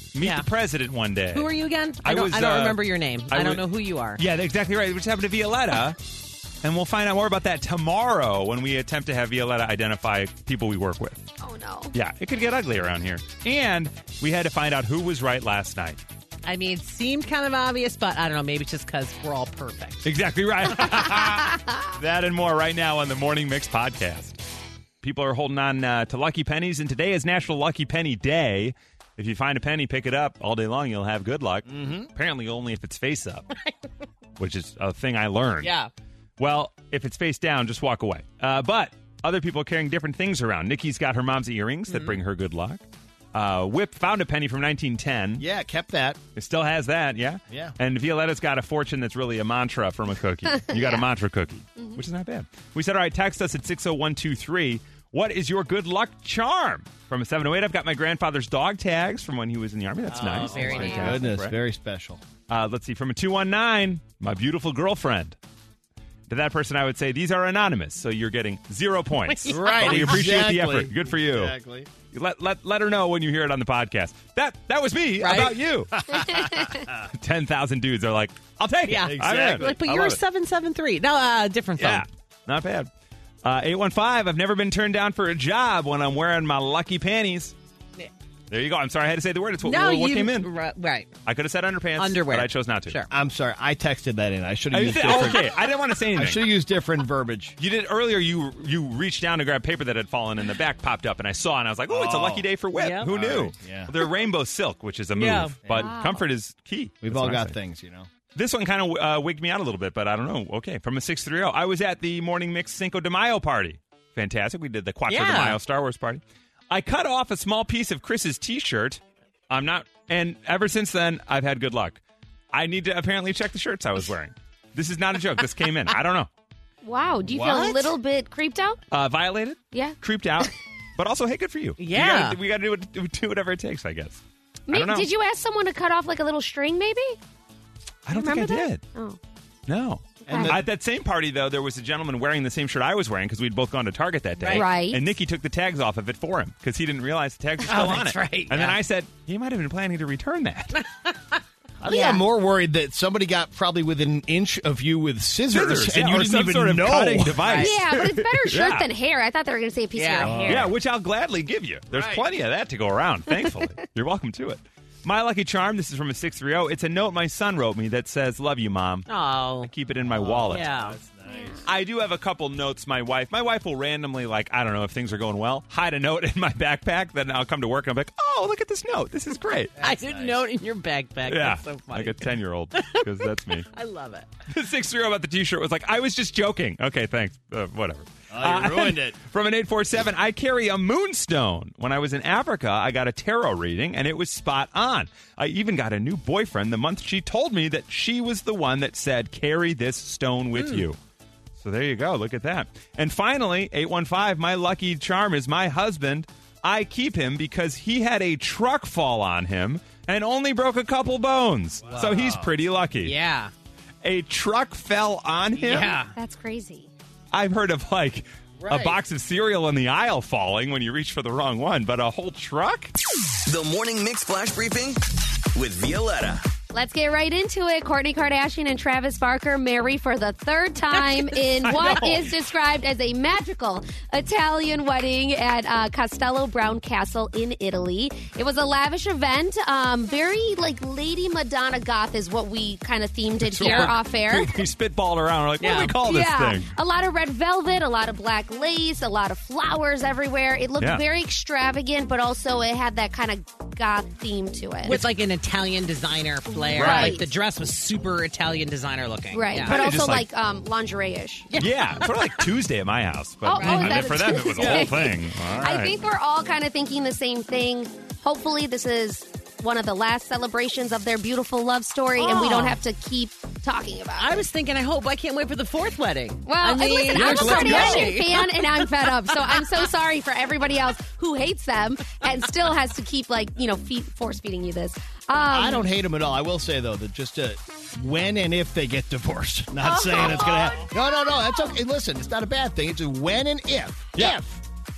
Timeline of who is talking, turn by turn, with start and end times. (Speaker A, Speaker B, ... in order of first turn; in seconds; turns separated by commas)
Speaker A: 0.1-6.0, Speaker B: 0.2-0.5, Speaker B: 1.3-4.2, Speaker A: 6.6-11.3, Speaker C: 11.4-11.9, Speaker A: 11.9-16.0, Speaker B: 16.4-20.1, Speaker A: 20.0-24.4, Speaker A: 25.0-33.5, Speaker D: 31.7-32.1, Speaker A: 34.4-35.7, Speaker B: 35.6-35.9, Speaker A: 36.4-42.8, Speaker B: 41.9-42.2, Speaker A: 43.3-45.4, Speaker D: 45.4-46.2, Speaker A: 46.4-61.5, Speaker D: 47.5-47.8, Speaker C: 50.6-51.0, Speaker B: 60.1-61.2, Speaker D: 60.5-62.2, Speaker A: 62.5-65.4, Speaker A: 66.3-71.5, Speaker B: 69.3-70.1, Speaker D: 69.5-71.9, Speaker A: 72.1-76.3, Speaker B: 75.2-75.6, Speaker D: 75.9-77.1, Speaker A: 76.9-80.2, Speaker B: 78.9-82.0, Speaker D: 79.0-79.7, Speaker A: 81.8-82.9, Speaker A: 83.4-87.5, Speaker A: 88.5-90.5, Speaker B: 89.6-91.1, Speaker A: 91.2-93.0, Speaker B: 92.0-93.1, Speaker D: 93.1-95.5, Speaker A: 94.7-96.5, Speaker D: 96.1-97.6, Speaker A: 97.6-107.5, Speaker D: 101.9-102.5, Speaker B: 102.8-103.1, Speaker D: 103.0-103.9, Speaker B: 105.1-105.5, Speaker D: 105.7-105.9, Speaker C: 105.7-106.2, Speaker D: 107.0-108.1, Speaker A: 108.3-122.0, Speaker B: 115.1-115.6, Speaker A: 122.5-126.3, Speaker C: 126.8-128.8, Speaker A: 128.9-135.1, Speaker B: 131.8-132.4, Speaker C: 134.7-137.2, Speaker A: 138.1-138.8, Speaker C: 138.1-139.2, Speaker A: 139.7-150.8, Speaker D: 140.3-140.6, Speaker C: 140.3-140.5, Speaker B: 144.4-144.7, Speaker C: 144.5-145.0, Speaker B: 147.6-148.8, Speaker B: 150.8-151.4, Speaker D: 151.8-157.5, Speaker C: 151.9-152.2, Speaker A: 155.5-158.9, Speaker B: 157.4-157.7, Speaker C: 157.6-160.7, Speaker B: 159.9-160.6, Speaker D: 160.2-160.7, Speaker A: 160.4-169.1, Speaker D: 161.9-162.2, Speaker B: 169.1-169.7, Speaker A: 169.6-170.8, Speaker D: 170.0-171.6, Speaker B: 170.5-170.9, Speaker C: 171.3-171.6, Speaker A: 171.6-179.7, Speaker D: 179.8-180.5, Speaker B: 179.8-184.3, Speaker A: 181.2-183.7, Speaker A: 184.5-201.0, Speaker D: 188.3-189.2, Speaker B: 200.6-200.8, Speaker A: 201.6-213.2, Speaker D: 211.8-212.5, Speaker B: 213.0-213.5, Speaker A: 214.0-215.9, Speaker B: 215.6-216.1, Speaker C: 215.8-216.9, Speaker A: 217.3-222.9, Speaker D: 218.6-219.0, Speaker E: 223.4-226.4, Speaker C: 226.7-244.7, Speaker B: 230.9-231.3, Speaker A: 231.6-232.3, Speaker A: 243.4-246.7, Speaker B: 243.6-243.9, Speaker B: 245.6-245.9, Speaker C: 246.0-255.0, Speaker B: 254.8-259.8, Speaker A: 254.9-255.1, Speaker C: 256.5-257.2, Speaker A: 256.7-257.2, Speaker C: 259.3-261.5, Speaker A: 259.6-260.2, Speaker B: 261.5-262.4, Speaker A: 261.6-265.9, Speaker C: 263.4-274.4, Speaker B: 263.5-264.9, Speaker B: 272.1-272.8, Speaker B: 274.2-279.6, Speaker C: 276.4-285.8, Speaker A: 277.1-278.1, Speaker D: 285.5-294.6, Speaker C: 289.8-291.6